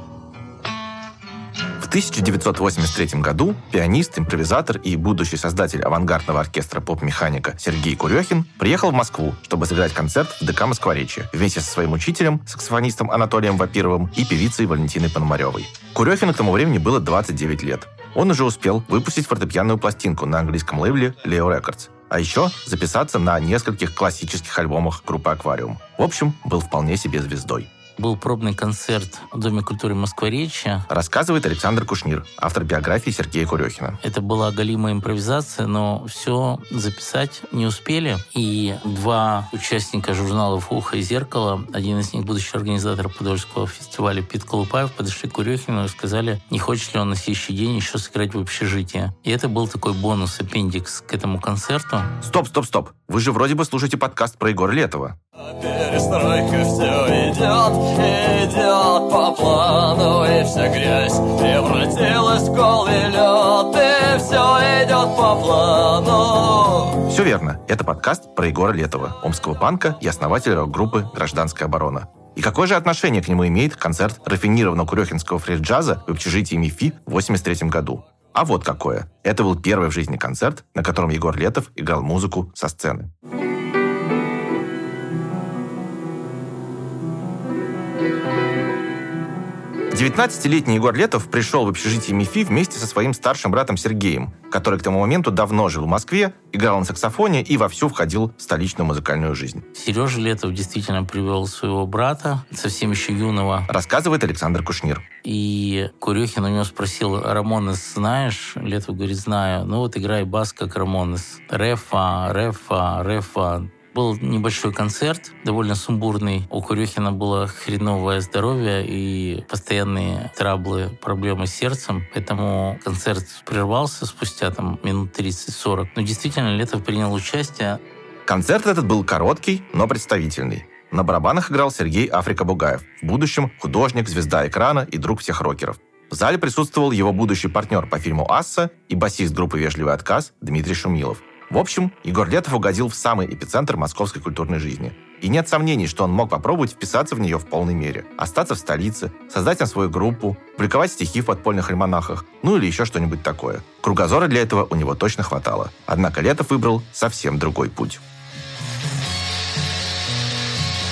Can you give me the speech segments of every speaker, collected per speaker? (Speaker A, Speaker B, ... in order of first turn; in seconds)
Speaker A: 1.8-27.7, 30.9-34.0, 52.2-55.2, 67.1-83.1, 89.9-99.6, 103.7-105.0, 128.3-158.0
Speaker B: 28.0-30.9, 34.0-52.1, 99.8-103.7, 105.2-127.8
Speaker C: 55.4-67.0